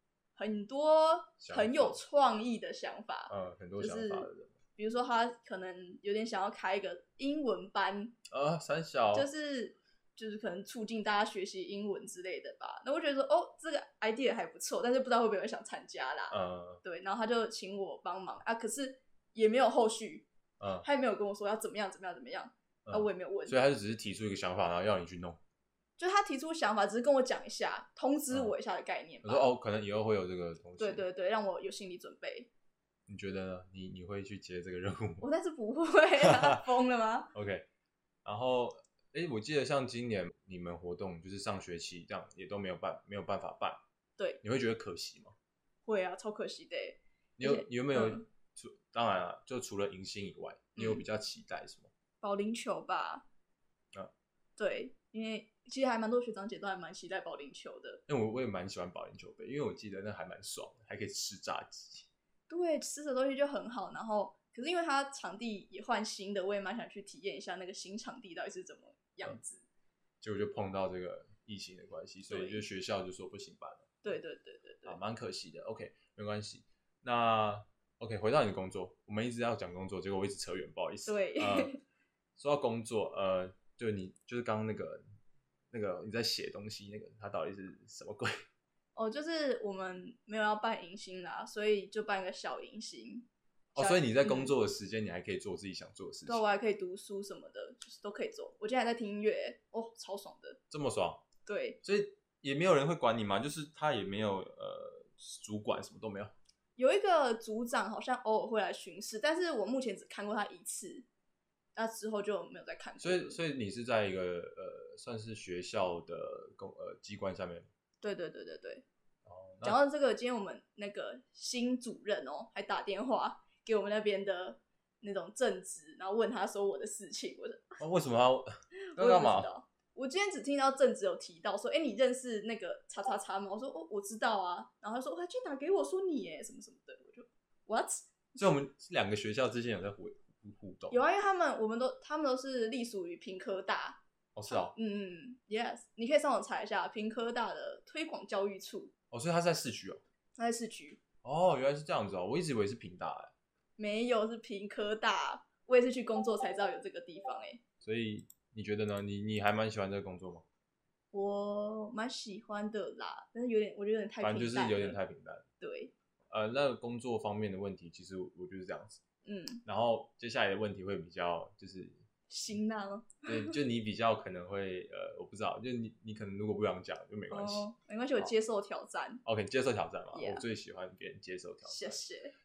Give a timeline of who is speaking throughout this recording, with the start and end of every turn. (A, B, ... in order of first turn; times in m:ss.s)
0:00.4-0:08.1 A
0:01.4-0:02.0 B
0:03.3-0:04.5 B
0:08.3-0:09.3 B
0:09.1-0:20.3 A
0:16.3-0:16.8 B
0:20.6-0:20.8 B
0:20.8-0:23.6 A
0:22.8-0:25.4 B
0:26.0-0:29.5 A
0:29.2-0:31.0 B
0:30.8-0:32.5 A
0:33.1-0:35.3 B
0:35.2-0:37.3 A
0:36.2-0:36.6 B
0:37.3-0:37.6 B
0:38.2-0:43.8 B
0:44.4-0:45.3 B
0:45.8-0:48.2 A
0:47.4-0:51.9 B
0:50.8-0:51.0 A
0:52.2-0:53.2 A
0:54.6-0:58.0 A
0:58.1-1:02.1 B
1:02.5-1:09.6 A
1:10.2-1:13.9 B
1:12.3-1:12.6 A
1:14.0-1:15.0 A
1:14.8-1:21.7 B
1:21.0-1:21.8 A
1:22.4-1:25.0 B
1:25.7-1:28.3 B
1:28.9-1:34.5 A
1:33.7-1:36.4 B
1:36.2-1:40.6 A
1:40.7-1:41.2 B
1:41.4-1:41.8 A
1:41.8-1:46.3 B
1:46.8-1:51.0 A
1:51.8-1:53.4 A
1:53.0-1:57.7 B
1:58.0-1:58.8 A
1:59.2-1:59.8 B
1:59.6-2:07.8 A
2:07.8-2:09.5 B
2:08.8-2:18.1 A
2:18.4-2:21.0 B
2:20.9-2:28.9 A
2:24.3-2:24.7 B
2:29.1-2:30.0 B
2:30.4-2:31.0 A
2:31.2-2:33.3 B
2:33.8-2:37.6 A
2:37.8-2:40.4 B
2:41.1-2:45.0 A
2:44.2-2:45.4 B
2:45.6-2:45.9 A
2:46.3-2:49.0 B
2:49.2-2:49.6 A
2:49.6-2:52.0 B
2:52.3-2:53.6 A
2:53.2-2:58.3 B
2:57.3-2:59.2 A
2:59.2-3:02.0 B
3:00.1-3:00.4 A
3:01.6-3:02.3 A